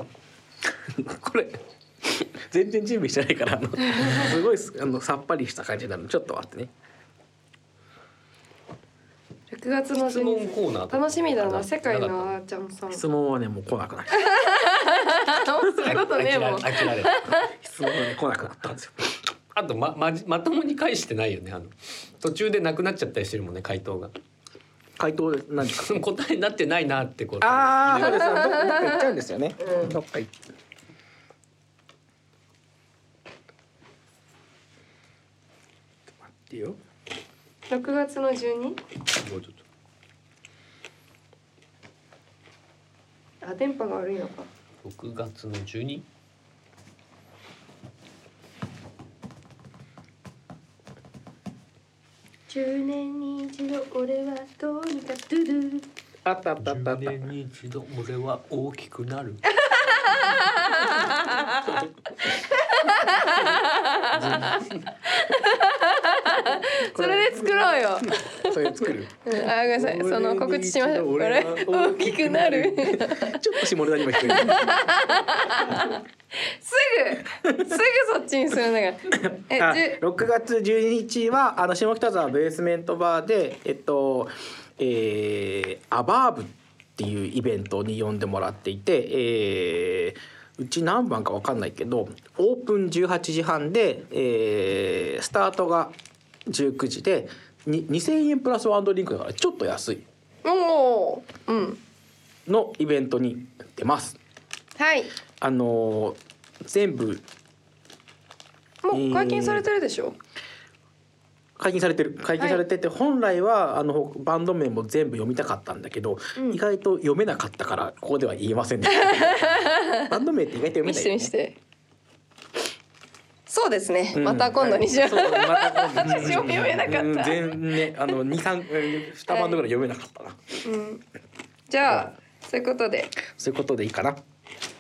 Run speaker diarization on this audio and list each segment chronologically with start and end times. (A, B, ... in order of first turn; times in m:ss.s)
0:00.8-0:06.7 A
0:09.5-0:13.0 B
0:10.0-0:12.4 C
0:12.9-0:14.4 A
0:14.1-0:17.5 B
0:15.8-0:17.4 C
0:17.6-0:19.2 A
0:19.5-0:24.1 C
0:25.0-0:26.0 A
0:25.7-0:28.3 C
0:27.4-0:30.4 A
0:28.0-0:29.1 B
0:29.6-0:29.9 B
0:36.2-0:36.8 A
0:37.7-0:38.8 B
0:39.2-0:39.6 C
0:43.4-0:44.5 B
0:44.8-0:46.0 C
0:52.5-0:55.9 B
0:56.2-0:57.2 A
0:56.6-1:00.4 C
0:59.5-1:13.4 B
1:01.5-1:01.9 A
1:04.2-1:04.6 A
1:06.8-1:15.7 A
1:14.1-1:20.0 B
1:17.4-1:17.8 A
1:19.1-1:36.0 A
1:36.5-1:40.0 A
1:40.4-1:41.8 B
1:42.5-1:44.2 A
1:44.8-1:45.1 B
1:45.4-1:47.2 A
1:48.8-1:50.2 B
1:48.9-1:49.6 A
1:51.6-2:01.3 A
1:52.4-1:52.6 B
1:56.4-1:56.6 B
1:58.9-2:00.1 B
2:00.8-2:01.6 B
2:03.5-2:07.6 B
2:04.1-2:10.6 A
2:06.1-2:06.6 C
2:09.3-2:09.6 B
2:10.6-2:11.0 B
2:11.7-2:13.1 B
2:13.2-2:14.2 A